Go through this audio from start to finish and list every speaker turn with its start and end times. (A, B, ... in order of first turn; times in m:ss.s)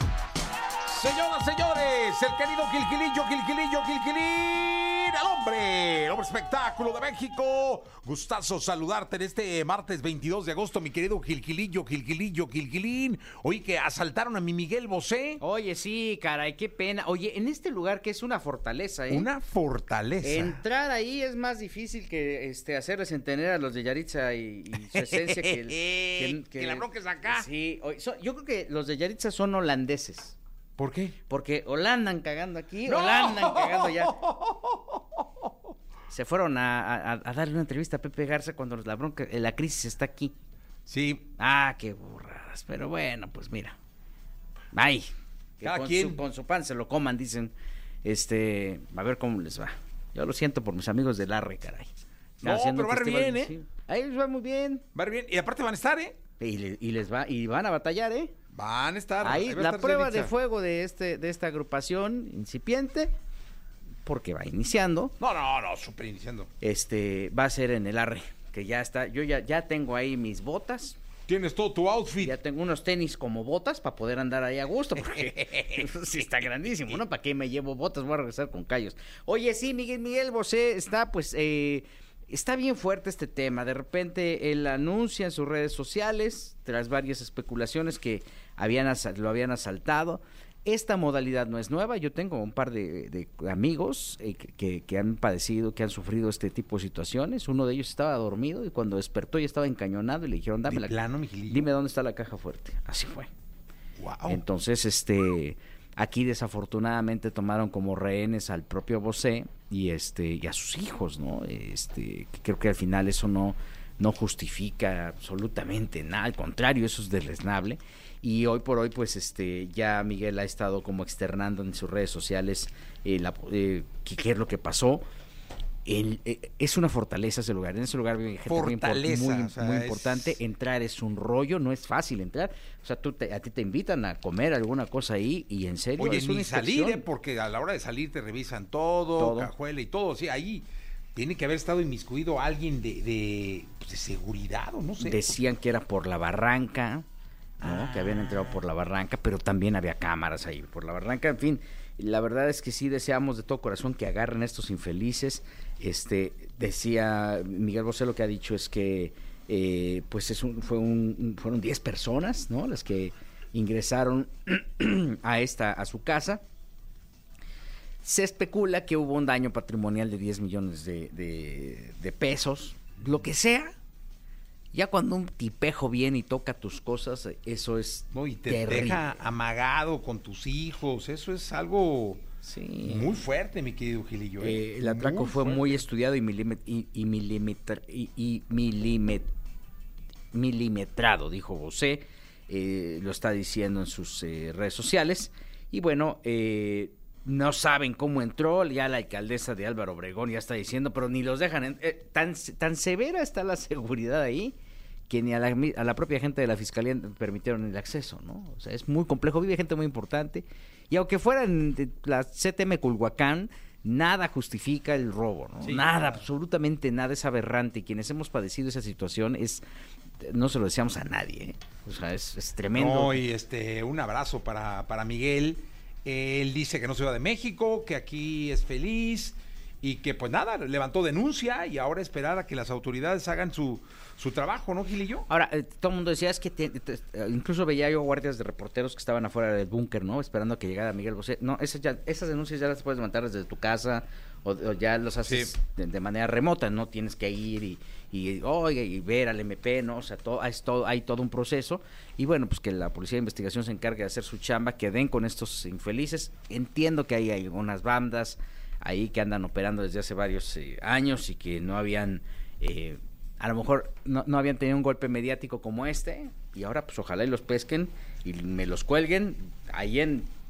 0:00.9-0:15.4 A
0:15.4-0:19.3 B
0:19.1-0:20.6 A
0:20.2-0:30.4 B
0:24.9-0:27.5 A
0:30.8-0:31.2 A
0:31.3-0:34.2 B
0:32.9-0:35.5 A
0:36.1-0:40.3 B
0:40.9-0:41.3 A
0:41.4-0:43.8 B
0:44.7-0:47.5 B
0:45.6-0:46.2 A
0:48.0-0:54.8 B
0:52.4-0:53.5 A
0:55.0-0:56.2 A
0:56.4-0:58.3 B
0:58.5-1:00.3 A
0:59.2-1:03.1 B
1:04.0-1:05.1 B
1:05.2-1:06.5 A
1:06.6-1:11.0 B
1:11.3-1:12.4 A
1:12.2-1:40.9 B
1:15.5-1:15.8 A
1:40.7-1:41.7 A
1:41.5-1:43.3 B
1:44.0-1:44.4 A
1:44.3-2:05.0 B
2:05.8-2:17.1 B
2:08.5-2:10.4 A
2:16.0-2:25.4 A
2:19.2-2:19.5 B
2:25.0-2:27.0 B
2:27.6-2:46.4 B
2:27.6-2:28.6 A
2:48.0-2:53.8 B
2:54.7-2:59.1 B
2:58.1-3:02.2 A
3:02.4-3:03.2 B
3:02.8-3:05.8 A
3:04.4-3:09.3 B
3:10.3-3:24.6 B
3:25.1-3:39.6 B
3:40.2-3:43.2 B
3:42.8-3:55.3 A
3:55.3-4:30.3 B
4:05.2-4:05.5 A